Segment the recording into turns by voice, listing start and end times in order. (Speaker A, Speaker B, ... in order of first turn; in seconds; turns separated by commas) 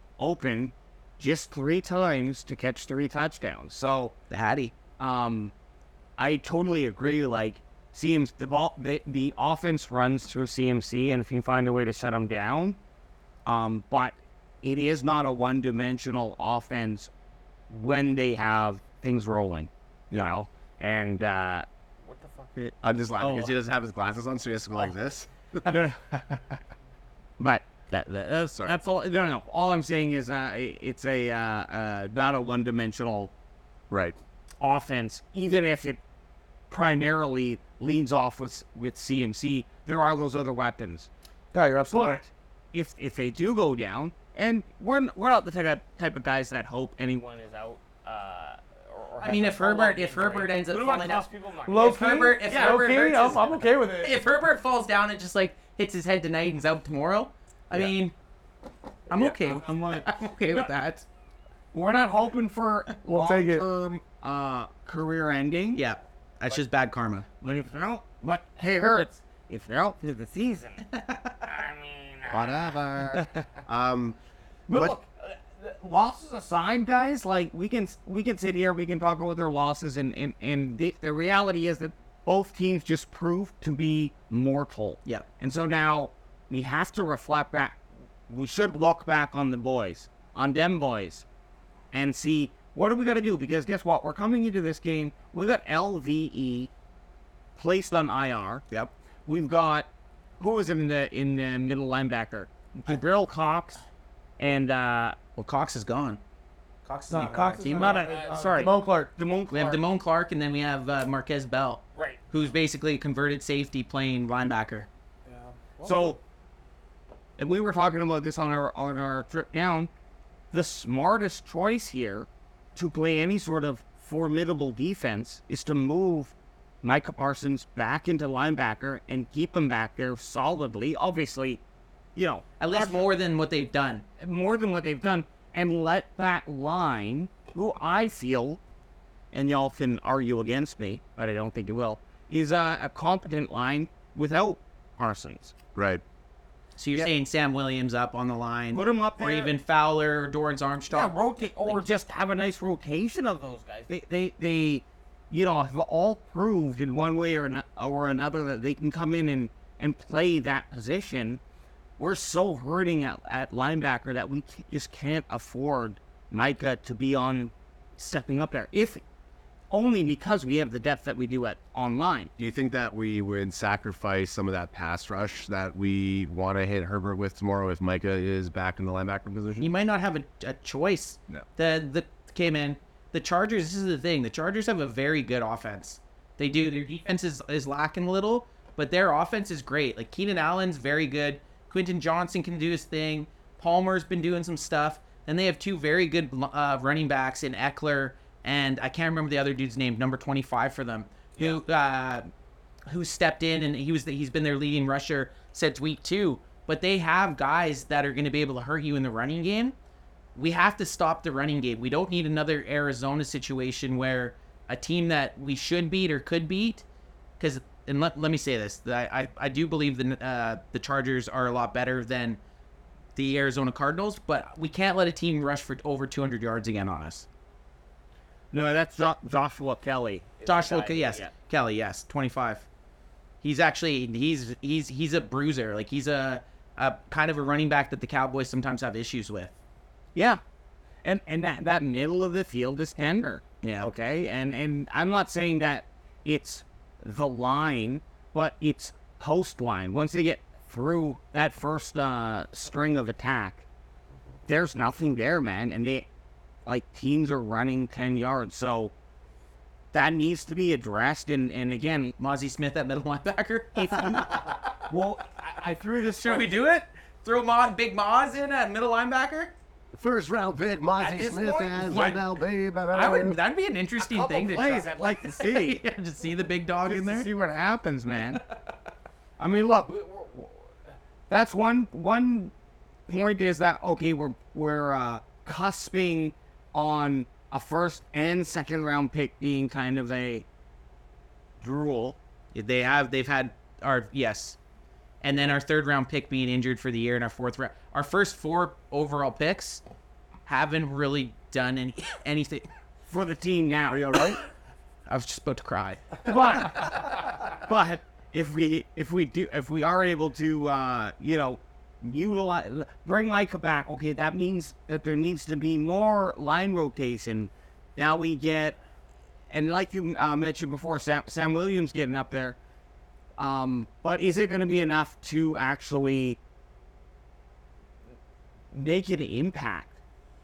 Speaker A: 0.2-4.2, Speaker B: 4.3-4.7, Speaker A: 5.0-5.5, Speaker A: 6.2-12.8, Speaker A: 13.5-17.1, Speaker A: 17.7-23.4, Speaker C: 22.8-25.8, Speaker B: 23.2-23.5, Speaker A: 25.6-26.4, Speaker A: 27.4-33.3, Speaker C: 33.9-34.2, Speaker A: 34.6-36.0, Speaker A: 36.7-41.1, Speaker D: 41.5-42.2, Speaker A: 41.9-53.3, Speaker B: 49.2-51.3, Speaker D: 51.7-54.2, Speaker B: 51.8-58.1, Speaker B: 59.1-61.0, Speaker A: 59.1-60.7, Speaker A: 61.7-65.8, Speaker D: 63.1-63.6, Speaker B: 65.8-67.3, Speaker A: 67.4-70.8, Speaker B: 70.9-71.5, Speaker A: 71.4-73.3, Speaker C: 72.3-74.2, Speaker A: 74.7-91.2, Speaker C: 74.7-75.0, Speaker A: 91.9-96.7, Speaker A: 97.6-98.6, Speaker A: 99.3-99.9, Speaker A: 100.4-103.8, Speaker A: 104.4-105.2, Speaker B: 105.4-106.2, Speaker B: 106.8-108.1, Speaker D: 107.1-109.1, Speaker A: 107.6-109.8, Speaker B: 109.5-114.9, Speaker D: 115.3-116.2, Speaker A: 115.8-116.2, Speaker A: 117.4-119.9, Speaker A: 120.5-131.6, Speaker A: 132.2-133.1, Speaker B: 132.6-134.1, Speaker A: 134.2-138.6, Speaker A: 139.3-145.5, Speaker C: 145.8-146.0, Speaker B: 146.8-151.1, Speaker A: 148.7-149.6, Speaker A: 150.9-161.4, Speaker A: 162.0-169.0, Speaker A: 169.7-172.3, Speaker C: 172.4-179.7, Speaker B: 179.6-202.3, Speaker B: 202.9-209.8, Speaker B: 210.3-216.8, Speaker B: 217.4-222.4, Speaker B: 223.2-227.3, Speaker A: 228.5-231.3, Speaker B: 230.5-232.7, Speaker B: 233.4-239.6, Speaker A: 240.2-240.4, Speaker A: 241.0-253.6, Speaker B: 243.6-243.9, Speaker A: 254.5-256.1, Speaker A: 256.7-258.9, Speaker A: 259.9-262.1, Speaker B: 262.2-264.6, Speaker A: 263.8-266.5, Speaker B: 266.2-269.5, Speaker C: 269.9-273.4, Speaker A: 271.0-272.2, Speaker B: 271.9-272.2, Speaker B: 272.9-277.3, Speaker A: 274.0-275.8, Speaker A: 276.9-278.4, Speaker A: 279.4-280.5, Speaker A: 281.3-282.5, Speaker A: 283.1-290.4, Speaker A: 291.6-292.2, Speaker B: 292.5-294.6, Speaker B: 295.2-299.8, Speaker B: 300.5-302.7, Speaker A: 303.1-304.2, Speaker C: 303.9-304.4, Speaker B: 305.1-306.2, Speaker A: 306.2-318.8, Speaker A: 319.5-322.6, Speaker A: 323.4-326.4, Speaker A: 328.7-329.9